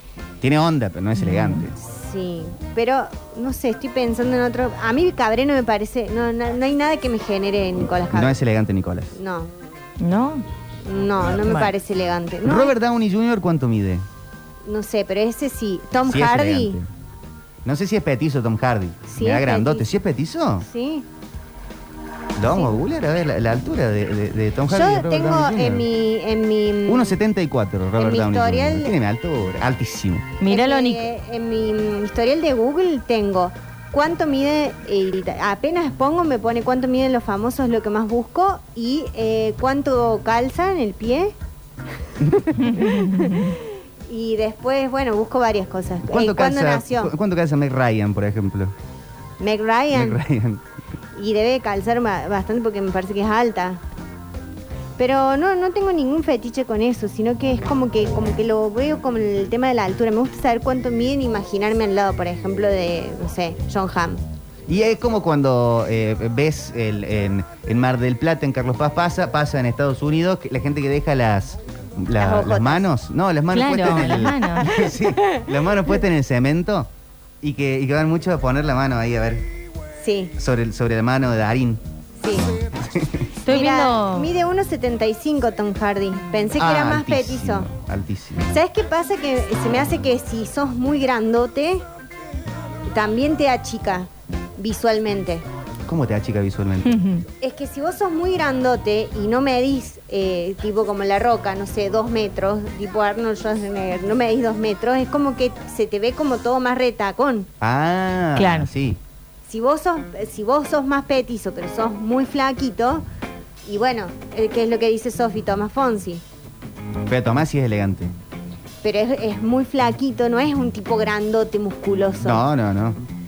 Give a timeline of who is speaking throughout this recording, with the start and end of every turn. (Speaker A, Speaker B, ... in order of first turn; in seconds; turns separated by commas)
Speaker A: 0.4-1.7, Speaker B: 1.2-1.7, Speaker C: 1.8-8.3, Speaker A: 8.1-9.1, Speaker C: 9.1-9.5, Speaker B: 10.0-10.4, Speaker C: 10.8-12.7, Speaker B: 11.4-11.7, Speaker A: 12.4-14.1, Speaker C: 14.6-16.8, Speaker A: 16.0-16.9, Speaker A: 17.6-20.6, Speaker C: 19.1-19.9, Speaker C: 20.6-21.0, Speaker A: 22.4-25.9, Speaker C: 24.7-27.2, Speaker A: 26.9-30.3, Speaker C: 28.0-28.9, Speaker B: 30.4-31.0, Speaker C: 30.5-41.3, Speaker C: 42.2-43.6, Speaker B: 42.6-43.5, Speaker C: 44.1-47.1, Speaker A: 46.0-48.7, Speaker C: 49.4-50.2, Speaker A: 49.9-50.6, Speaker C: 51.1-53.8, Speaker C: 55.0-64.2, Speaker A: 64.7-76.9, Speaker C: 72.2-72.8, Speaker B: 73.5-74.7, Speaker C: 74.1-75.4, Speaker A: 77.4-79.4, Speaker C: 80.0-80.3, Speaker A: 80.4-81.8, Speaker C: 82.2-82.5, Speaker A: 82.8-83.2, Speaker B: 83.5-84.3, Speaker C: 83.5-87.7, Speaker A: 86.5-88.5, Speaker C: 88.5-91.8, Speaker C: 92.9-95.4, Speaker A: 95.8-97.0, Speaker B: 96.8-97.2, Speaker C: 97.4-107.5, Speaker A: 107.6-109.0, Speaker B: 108.3-108.7, Speaker C: 109.5-113.0, Speaker C: 113.7-116.2, Speaker A: 117.1-118.1, Speaker C: 118.8-122.5, Speaker A: 122.2-123.0